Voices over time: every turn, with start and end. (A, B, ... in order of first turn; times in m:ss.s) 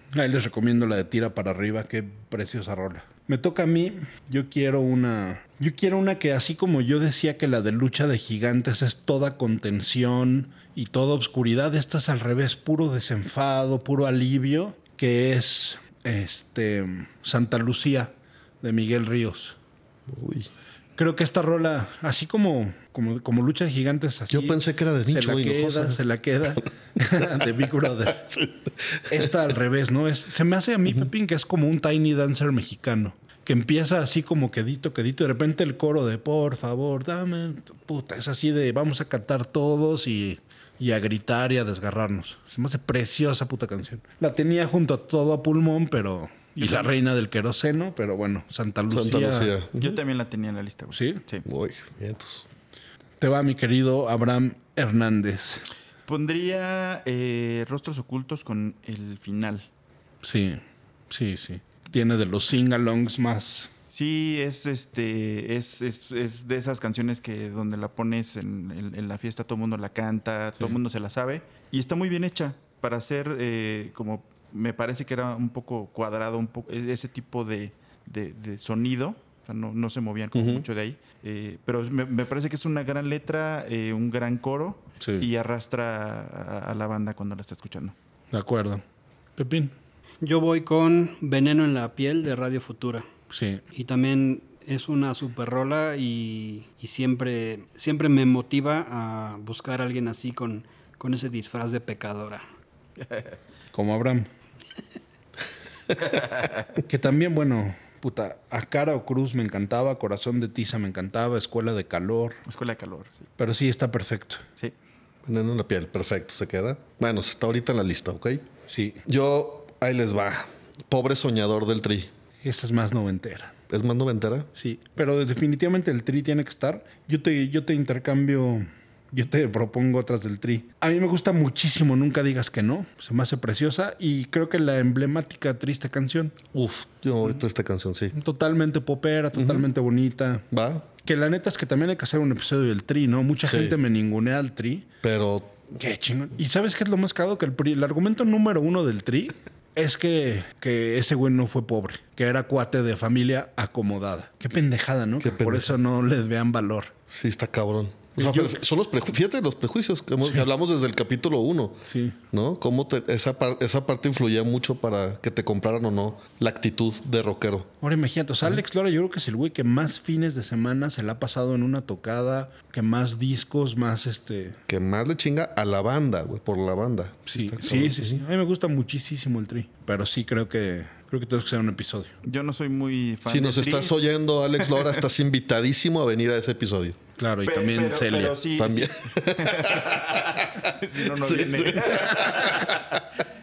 0:00.1-0:19.6 A
0:20.1-0:20.5 B
0:21.0-0:28.2 A
0:24.3-0:26.0 B
0:28.1-0:29.3 B
0:29.1-0:49.5 A
0:46.6-0:46.9 C
0:48.9-0:50.0 B
0:49.8-0:51.4 C
0:50.9-0:51.2 A
0:51.4-0:52.5 B
0:53.2-0:55.6 A
0:56.1-0:59.7 C
1:00.2-1:03.7 A
1:03.9-1:27.9 C
1:20.3-1:20.6 B
1:25.0-1:25.3 A
1:28.3-1:28.8 A
1:29.4-1:29.7 A
1:30.2-1:33.0 D
1:33.3-1:33.6 A
1:33.7-1:42.4 D
1:43.0-1:43.4 C
1:43.7-1:44.3 A
1:46.0-1:46.5 C
1:46.8-1:52.4 A
1:52.4-1:53.3 C
1:53.4-1:54.4 A
1:55.2-1:58.5 B
1:58.7-1:59.0 A
1:59.0-2:02.1 B
2:02.4-2:03.5 A
2:03.7-2:04.5 B
2:04.5-2:16.4 A
2:16.5-2:18.1 B
2:18.1-2:20.4 A
2:19.3-2:19.6 B
2:20.5-2:20.9 B
2:21.0-2:24.9 A
2:23.4-2:23.8 B
2:25.0-2:25.7 B
2:25.8-2:36.9 A
2:35.2-2:35.7 B
2:37.1-2:47.7 B
2:38.2-2:38.6 A
2:41.9-2:42.2 A
2:47.8-2:54.6 A
2:54.7-2:58.2 B
2:57.3-3:02.1 A
3:02.2-3:04.0 C
3:03.2-3:07.0 B
3:04.6-3:05.0 C
3:07.2-3:08.4 A
3:07.4-3:13.0 C
3:08.6-3:12.8 B